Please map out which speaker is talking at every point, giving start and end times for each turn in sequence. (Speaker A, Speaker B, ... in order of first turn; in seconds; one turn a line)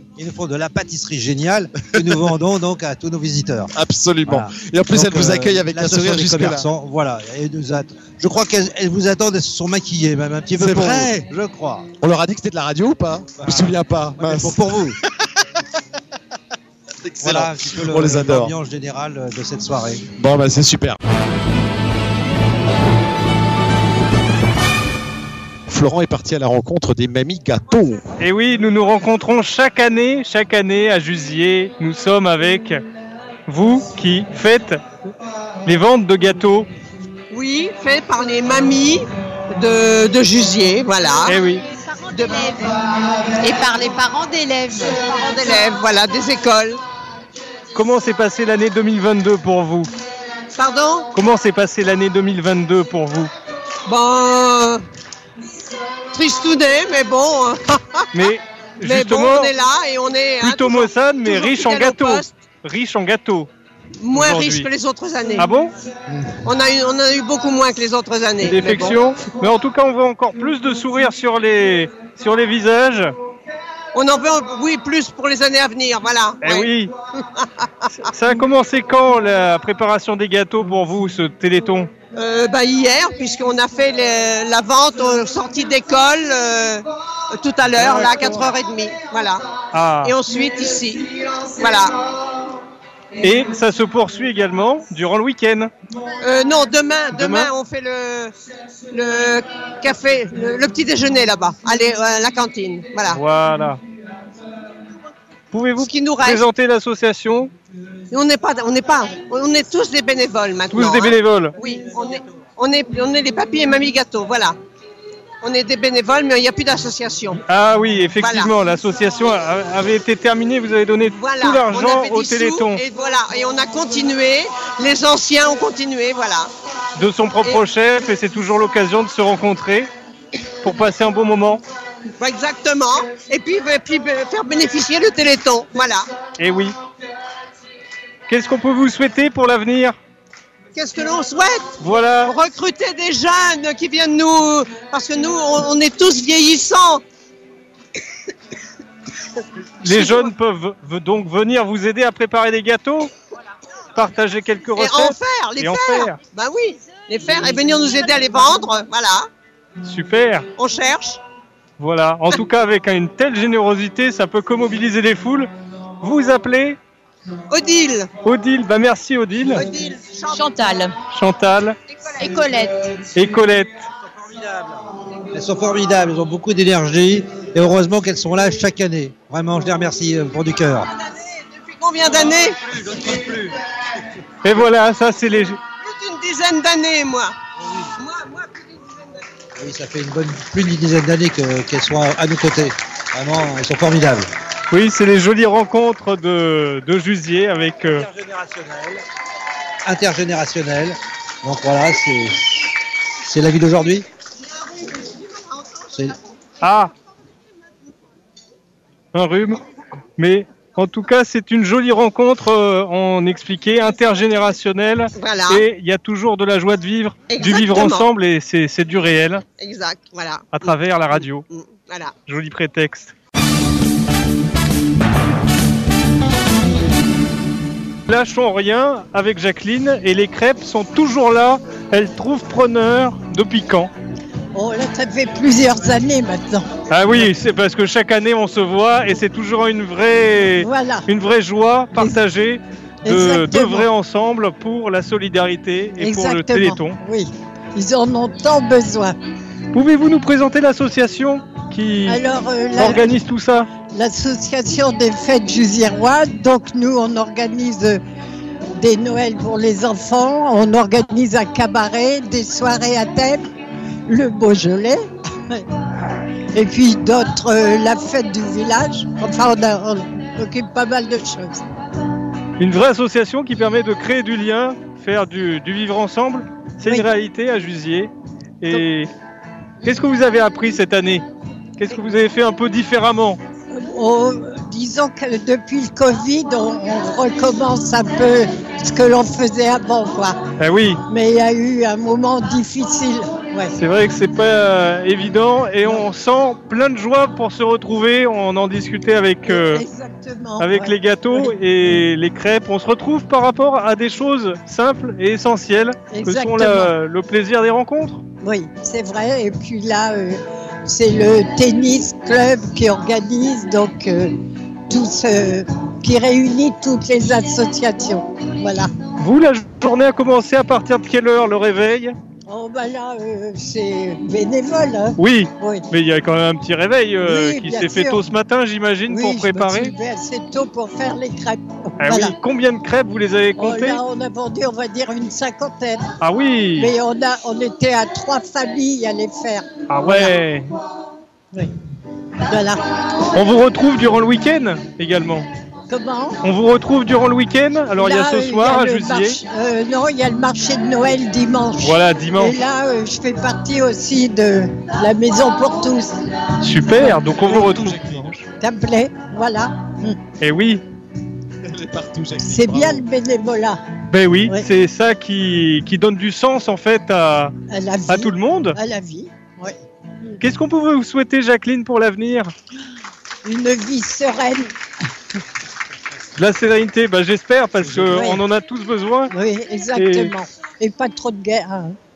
Speaker A: 0.2-3.7
Speaker B: 3.7-6.7
Speaker A: 4.2-11.9
Speaker B: 10.5-11.3
Speaker B: 12.0-14.6
Speaker A: 13.4-15.0
Speaker B: 17.0-18.5
Speaker A: 17.2-20.0
Speaker B: 20.2-21.0
Speaker B: 25.7-28.0
Speaker C: 28.2-32.8
Speaker C: 33.5-34.8
Speaker C: 35.6-36.7
Speaker D: 37.3-41.4
Speaker C: 41.2-41.6
Speaker E: 41.7-42.6
Speaker D: 42.1-42.6
Speaker E: 43.4-45.0
Speaker D: 45.0-46.8
Speaker C: 47.7-49.9
Speaker D: 50.5-51.1
Speaker C: 51.1-53.3
Speaker D: 53.9-54.8
Speaker D: 56.1-58.1
Speaker C: 58.1-59.5
Speaker D: 58.8-62.3
Speaker C: 60.4-63.5
Speaker D: 64.0-65.5
Speaker C: 64.1-64.7
Speaker C: 65.4-65.7
Speaker D: 66.4-69.0
Speaker C: 68.4-73.1
Speaker D: 73.9-76.7
Speaker C: 76.4-76.9
Speaker D: 77.2-77.7
Speaker C: 78.0-81.9
Speaker D: 82.1-89.4
Speaker C: 87.9-88.2
Speaker C: 89.7-90.2
Speaker D: 90.0-92.0
Speaker C: 93.2-95.7
Speaker D: 96.2-98.3
Speaker C: 97.1-97.5
Speaker D: 98.9-103.2
Speaker C: 103.1-103.8
Speaker C: 105.5-107.5
Speaker D: 105.8-106.4
Speaker D: 108.1-114.6
Speaker C: 110.7-111.5
Speaker D: 115.4-117.4
Speaker C: 117.5-122.8
Speaker D: 118.2-118.5
Speaker D: 121.2-126.5
Speaker C: 127.0-129.9
Speaker C: 130.6-131.6
Speaker D: 132.2-136.1
Speaker C: 136.4-136.7
Speaker C: 138.3-139.9
Speaker D: 140.7-147.0
Speaker C: 141.8-142.3
Speaker C: 149.8-153.1
Speaker D: 149.8-150.2
Speaker C: 153.9-156.2
Speaker D: 154.8-159.3
Speaker C: 159.8-160.4
Speaker D: 160.6-161.2
Speaker C: 161.8-165.5
Speaker C: 166.0-166.8
Speaker D: 167.5-168.1
Speaker C: 168.2-169.6
Speaker D: 169.4-170.5
Speaker E: 170.3-170.9
Speaker C: 171.1-171.8
Speaker E: 172.1-172.9
Speaker C: 173.1-173.8
Speaker A: 174.1-180.9
Speaker D: 181.2-182.6
Speaker A: 182.6-183.5
Speaker C: 184.4-185.6
Speaker D: 185.8-187.3
Speaker D: 187.9-189.2
Speaker A: 189.6-194.3
Speaker C: 194.7-198.1
Speaker A: 197.9-199.0
Speaker A: 199.8-202.7
Speaker A: 203.2-204.1
Speaker D: 204.9-205.7
Speaker C: 206.6-206.9
Speaker C: 209.1-209.6
Speaker C: 210.2-219.4
Speaker D: 215.2-215.6
Speaker D: 217.3-218.1
Speaker D: 219.6-222.1
Speaker C: 220.5-221.4
Speaker C: 222.2-223.1
Speaker C: 228.1-233.9
Speaker F: 234.5-236.7
Speaker C: 236.9-247.0
Speaker F: 240.6-241.1
Speaker F: 243.0-243.9
Speaker F: 246.0-249.1
Speaker C: 249.7-252.2
Speaker F: 252.1-253.2
Speaker C: 252.7-253.7
Speaker F: 253.9-258.0
Speaker F: 258.7-263.5
Speaker F: 264.1-265.6
Speaker F: 266.5-271.6
Speaker C: 272.6-279.1
Speaker C: 279.8-281.2
Speaker C: 281.8-283.4
Speaker F: 283.7-290.4
Speaker C: 290.6-291.0
Speaker F: 291.1-293.7
Speaker C: 293.8-299.8
Speaker F: 299.5-301.5
Speaker C: 300.6-308.2
Speaker F: 306.1-306.9
Speaker F: 308.4-318.9
Speaker C: 319.2-322.1
Speaker F: 322.5-325.8
Speaker C: 325.2-329.9
Speaker F: 327.2-328.2
Speaker F: 329.1-332.3
Speaker C: 332.0-334.0
Speaker F: 333.6-336.1
Speaker C: 336.2-336.9
Speaker F: 336.8-340.3
Speaker C: 339.9-340.7
Speaker F: 342.5-342.8
Speaker C: 343.3-345.4
Speaker F: 345.9-346.4
Speaker C: 346.4-349.4
Speaker F: 348.0-356.1
Speaker C: 351.8-352.6
Speaker C: 356.6-358.4
Speaker B: 357.3-358.2
Speaker F: 358.6-360.2
Speaker C: 360.4-360.8
Speaker B: 361.6-363.0
Speaker F: 362.4-363.8
Speaker C: 364.1-367.5
Speaker F: 367.7-369.8
Speaker C: 368.1-368.8
Speaker C: 370.4-372.5
Speaker F: 373.4-374.7
Speaker C: 376.4-379.3
Speaker F: 378.1-378.4
Speaker F: 379.3-381.9
Speaker C: 379.9-380.3